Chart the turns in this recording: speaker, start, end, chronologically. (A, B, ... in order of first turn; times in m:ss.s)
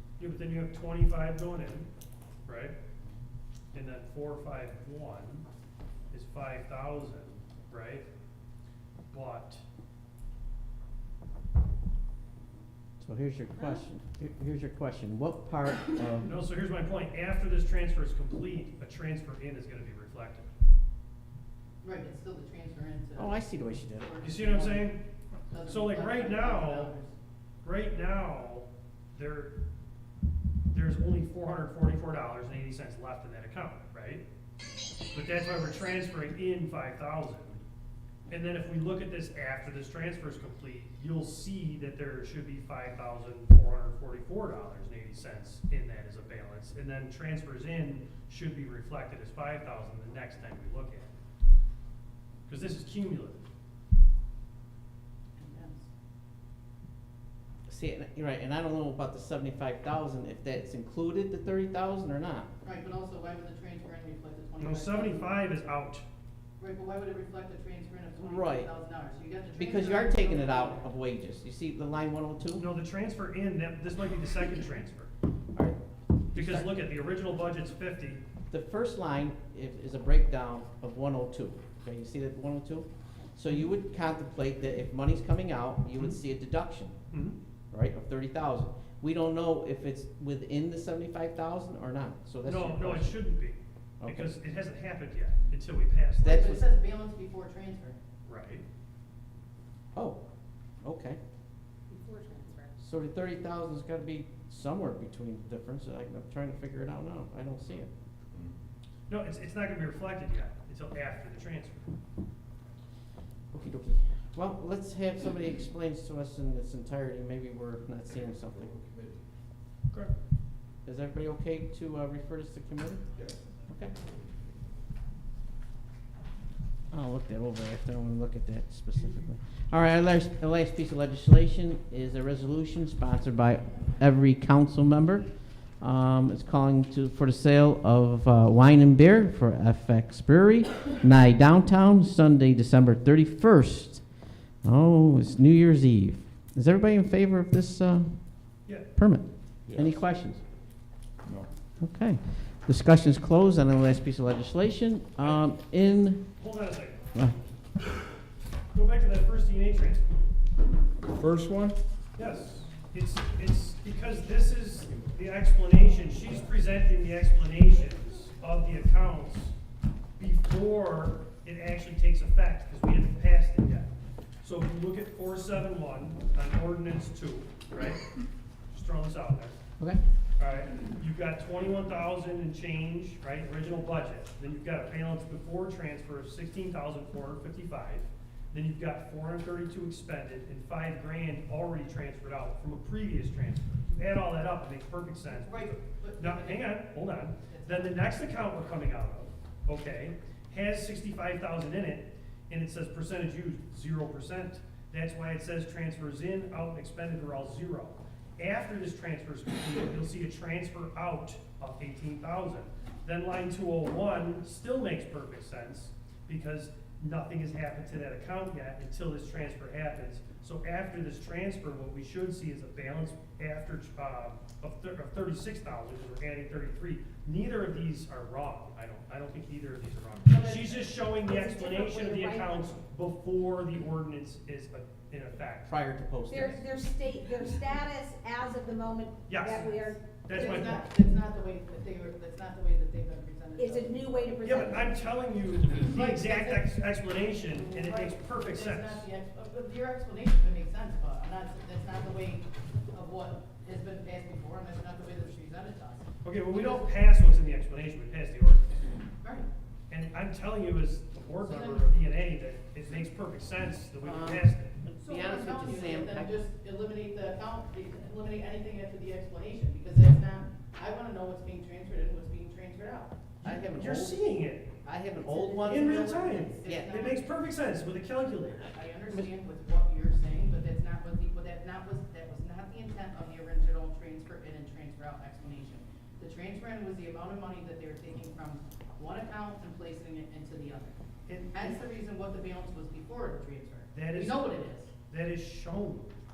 0:00.2-0:01.9 A
0:02.4-0:02.7 A
0:03.7-0:05.4 A
0:06.1-0:08.0 A
0:09.1-0:09.6 A
0:13.0-0:16.3 B
0:16.2-0:20.5 A
0:21.8-0:23.4 C
0:23.2-0:24.1 B
0:23.9-0:25.0 C
0:24.2-0:25.0 A
0:25.5-0:27.1 C
0:25.6-0:26.9 A
0:27.6-0:29.5 A
0:30.7-0:34.2 A
0:35.1-0:37.6 A
0:38.3-0:51.2 A
0:52.5-0:53.4 A
0:55.4-0:55.9 C
0:57.7-1:02.5 B
1:02.6-1:05.3 C
1:04.6-1:06.0 A
1:06.6-1:10.9 C
1:08.2-1:08.7 B
1:09.6-1:12.6 B
1:12.6-1:15.1 A
1:16.3-1:16.8 B
1:16.3-1:18.2 A
1:18.5-1:27.0 B
1:27.7-1:33.2 B
1:32.4-1:36.6 A
1:34.0-1:34.3 B
1:36.2-1:38.0 C
1:36.2-1:36.6 B
1:38.2-1:38.6 A
1:39.9-1:40.2 B
1:40.8-1:41.2 B
1:41.9-1:42.8 D
1:42.8-1:47.9 B
1:49.1-1:51.9 A
1:53.5-1:58.7 B
1:58.1-1:59.2 E
2:00.8-2:03.0 B
2:03.7-2:03.9 B
2:06.9-2:15.3 B
2:15.8-2:24.1 B
2:24.6-2:30.4 B
2:29.7-2:29.9 E
2:31.8-2:36.2 B
2:36.4-2:37.1 A
2:38.7-2:40.0 A
2:41.0-2:41.8 E
2:42.2-2:49.5 A
2:50.2-2:53.9 A
2:54.4-2:58.1 A
2:58.7-2:59.6 A
3:00.4-3:55.7 A
3:15.3-3:18.1 C
3:50.3-3:52.8 D
3:55.6-3:56.6 B
3:56.3-4:00.1 D
3:59.3-4:00.9 A
4:00.3-4:06.6 C
4:03.6-4:05.0 D
4:04.4-4:09.1 A
4:07.4-4:16.9 C
4:16.2-4:18.8 A
4:19.2-4:19.5 C
4:19.9-4:24.8 A
4:21.4-4:21.9 C
4:24.0-4:26.3 B
4:24.9-4:33.2 C
4:33.4-4:34.7 A
4:33.4-4:34.3 B
4:34.8-4:36.9 B
4:35.2-4:37.2 C
4:35.6-4:39.3 A
4:38.6-4:51.0 C
4:51.3-4:51.8 A
4:51.5-4:54.9 C
4:53.9-4:54.5 A
4:55.1-4:56.2 A